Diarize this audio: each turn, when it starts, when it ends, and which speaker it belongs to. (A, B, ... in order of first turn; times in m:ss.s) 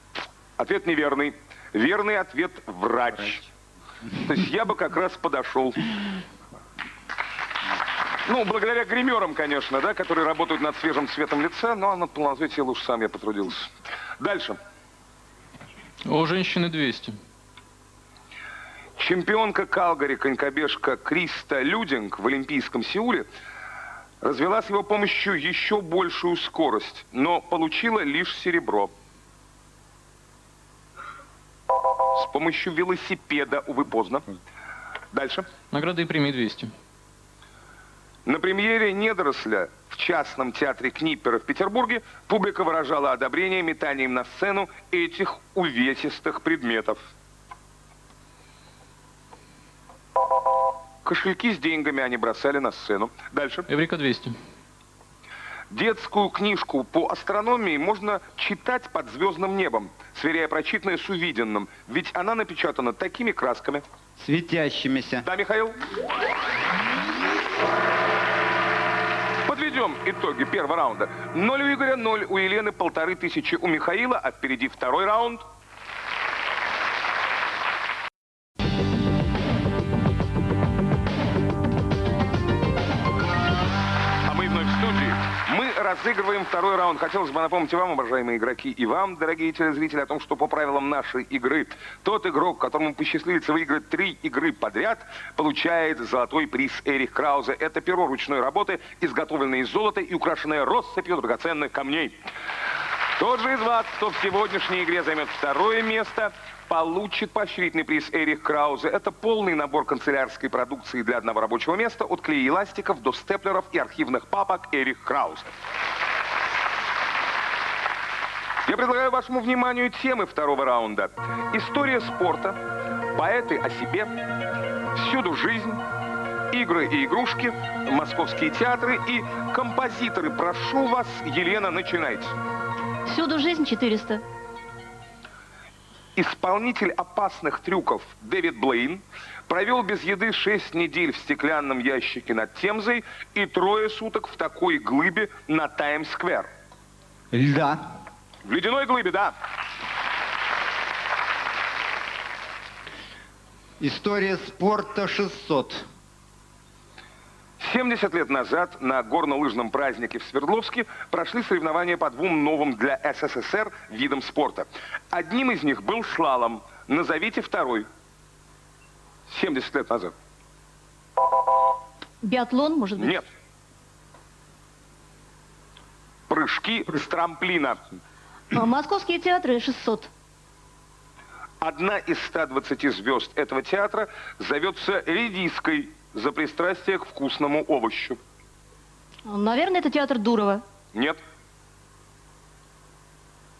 0:00.6-0:03.5 A
0:04.2-0:05.8 A
0:08.2-0:14.6 A
0:16.0-0:17.2 B
0:19.0-0:23.3 A
0:24.2-0:28.9 A
0:32.1-0:34.3 A
0:35.1-0:35.4 A
0:35.7-0:36.7 B
0:38.2-0:47.0 A
0:51.0-0:53.6 A
0:53.7-0:54.4 B
0:55.7-1:03.8 A
1:04.2-1:05.2 C
1:05.2-1:05.8 A
1:09.4-1:15.4 A
1:24.2-1:42.2 A
1:43.2-1:55.5 A
1:58.6-2:02.6 A
2:03.1-2:04.1 A
2:04.9-2:05.8 A
2:06.5-2:12.4 A
2:13.0-2:14.2 D
2:16.2-2:26.5 A
2:27.3-2:27.8 C
2:28.4-2:29.3 A
2:33.8-2:35.8 C
2:37.6-2:47.9 A
2:49.3-2:50.1 A
2:52.2-2:53.1 D
2:53.0-2:53.2 A
2:56.3-2:57.9 A
2:58.5-3:00.1 D
3:01.6-3:08.2 A
3:09.2-3:10.6 D